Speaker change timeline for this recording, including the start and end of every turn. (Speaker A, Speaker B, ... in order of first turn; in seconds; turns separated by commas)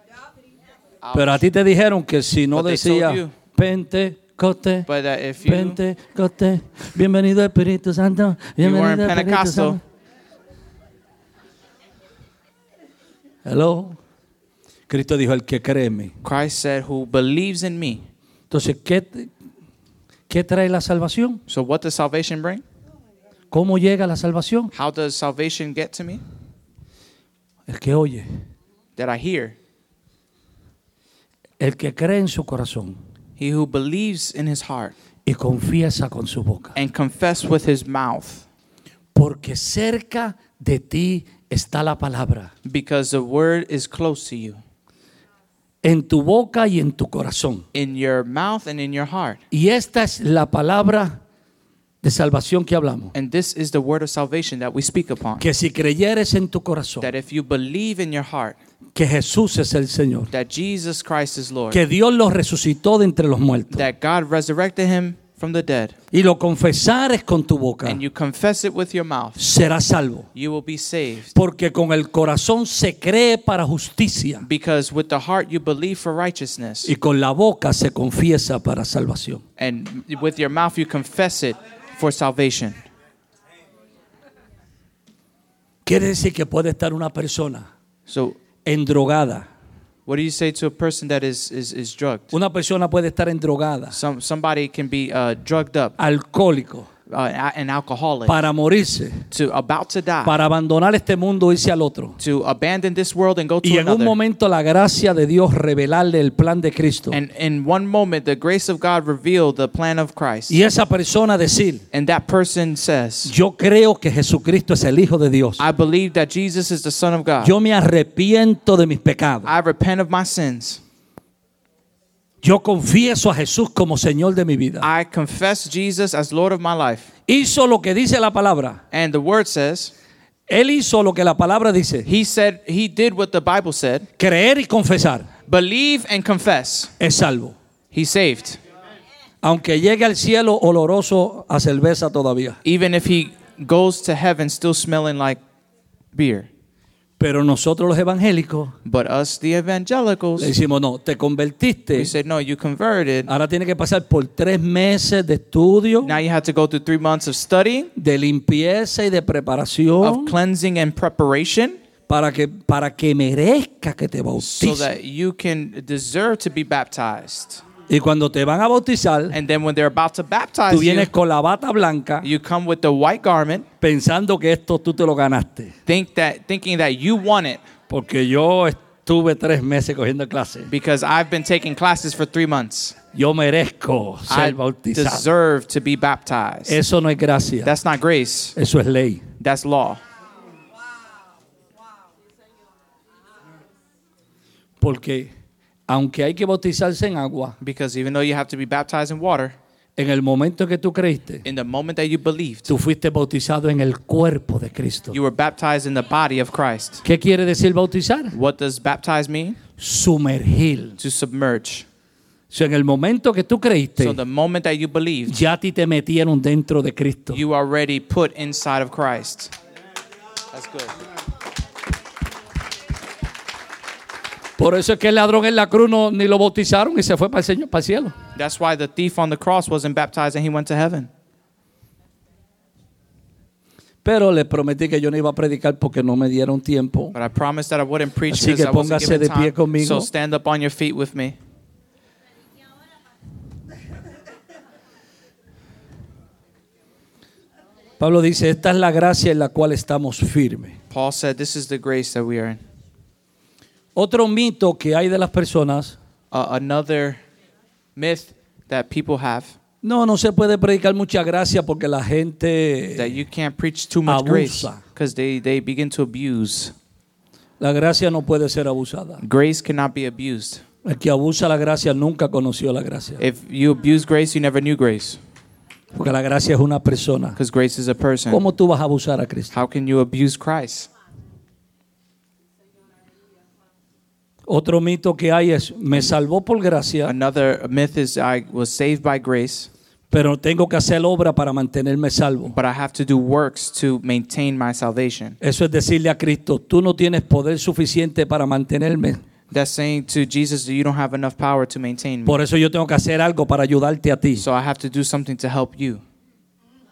Speaker A: 1.0-1.4, Speaker B: 1.1-4.9, Speaker A: 2.5-3.3, Speaker A: 4.9-5.8, Speaker B: 5.4-9.8, Speaker A: 8.6-9.8, Speaker B: 13.4-14.0, Speaker B: 14.9-16.1, Speaker A: 16.2-18.1, Speaker B: 18.5-19.3, Speaker B: 20.3-21.4, Speaker A: 21.5-22.6, Speaker B: 23.5-24.7, Speaker A: 24.7-26.2, Speaker B: 27.7-28.4, Speaker A: 28.9-29.6, Speaker B: 31.6-33.0, Speaker A: 33.4-34.9, Speaker B: 35.3-36.8, Speaker A: 36.8-38.4, Speaker B: 39.1-42.5, Speaker A: 42.6-44.6, Speaker B: 45.8-47.6, Speaker A: 47.7-49.4, Speaker B: 49.5-51.2, Speaker B: 52.0-53.1, Speaker A: 53.1-55.4, Speaker B: 55.4-57.1, Speaker A: 57.0-58.6, Speaker B: 58.9-60.3, Speaker A: 60.3-61.8, Speaker B: 61.7-63.9, Speaker A: 63.7-65.9, Speaker B: 66.1-68.0, Speaker A: 67.8-69.4, Speaker B: 69.4-70.3, Speaker A: 70.3-71.3, Speaker B: 71.3-74.5, Speaker A: 74.4-76.9, Speaker B: 76.8-79.4, Speaker A: 79.6-82.8, Speaker B: 85.9-87.7, Speaker A: 88.1-88.4, Speaker B: 88.6-89.5, Speaker A: 90.0-92.3, Speaker B: 92.3-94.0, Speaker A: 93.9-96.0, Speaker B: 96.0-96.9, Speaker A: 97.1-98.4, Speaker B: 98.3-99.3, Speaker A: 99.3-100.4, Speaker B: 100.2-102.2, Speaker A: 102.2-104.2, Speaker B: 103.6-107.2, Speaker A: 107.1-110.6, Speaker B: 110.5-111.8, Speaker A: 111.9-113.3, Speaker B: 113.3-115.6, Speaker A: 115.6-117.5, Speaker B: 117.4-119.5, Speaker A: 119.4-120.8, Speaker B: 122.4-124.9, Speaker A: 124.8-127.1, Speaker B: 127.3-128.8, Speaker A: 128.9-129.9, Speaker B: 130.5-132.1, Speaker A: 132.1-134.1, Speaker B: 134.2-135.3, Speaker A: 135.5-136.9, Speaker B: 137.0-137.6, Speaker A: 137.9-138.6, Speaker B: 139.4-142.6, Speaker A: 142.6-145.4, Speaker A: 146.1-146.5, Speaker B: 147.2-148.8, Speaker A: 148.8-150.5, Speaker B: 150.4-152.1, Speaker A: 151.9-153.3, Speaker B: 153.3-156.1, Speaker A: 156.0-157.9, Speaker B: 157.9-160.4, Speaker A: 160.0-161.8, Speaker B: 162.1-164.9, Speaker A: 164.4-167.6, Speaker B: 167.9-169.4, Speaker A: 169.3-171.1, Speaker B: 170.7-172.3, Speaker A: 172.2-173.7, Speaker B: 173.8-175.7, Speaker A: 175.9-177.6, Speaker B: 177.9-180.7, Speaker A: 180.7-183.0, Speaker B: 183.1-185.3, Speaker A: 184.3-186.8, Speaker B: 186.7-187.7, Speaker A: 187.6-188.6, Speaker B: 188.6-189.3, Speaker A: 189.4-190.0, Speaker B: 194.8-195.3, Speaker B: 195.9-197.6, Speaker A: 197.6-199.6, Speaker B: 200.0-201.4, Speaker A: 201.4-202.7, Speaker B: 202.7-205.2, Speaker A: 205.1-207.0, Speaker B: 207.0-208.3, Speaker A: 208.3-209.6, Speaker B: 209.8-211.0, Speaker A: 211.0-211.9, Speaker B: 212.5-214.2, Speaker A: 214.0-215.4, Speaker B: 215.3-217.4, Speaker A: 217.3-219.5, Speaker A: 220.5-220.9, Speaker B: 224.6-228.1, Speaker A: 228.3-231.1, Speaker B: 234.0-237.1, Speaker A: 237.1-241.4, Speaker B: 238.3-240.1, Speaker B: 248.0-250.8, Speaker A: 250.9-252.6, Speaker B: 253.9-255.9, Speaker A: 256.3-257.2, Speaker A: 257.9-259.6, Speaker B: 259.8-263.1, Speaker A: 262.9-266.7, Speaker B: 264.1-264.8, Speaker B: 267.6-269.2, Speaker A: 269.2-270.6, Speaker B: 270.8-273.2, Speaker A: 273.2-275.2, Speaker B: 275.9-277.4, Speaker A: 277.4-278.4, Speaker B: 278.3-279.6, Speaker A: 279.5-280.9, Speaker B: 284.5-287.1, Speaker A: 287.1-289.7, Speaker B: 290.1-292.6, Speaker A: 292.6-295.4, Speaker B: 295.4-299.2, Speaker A: 299.5-302.4, Speaker B: 302.3-304.5, Speaker A: 304.4-306.0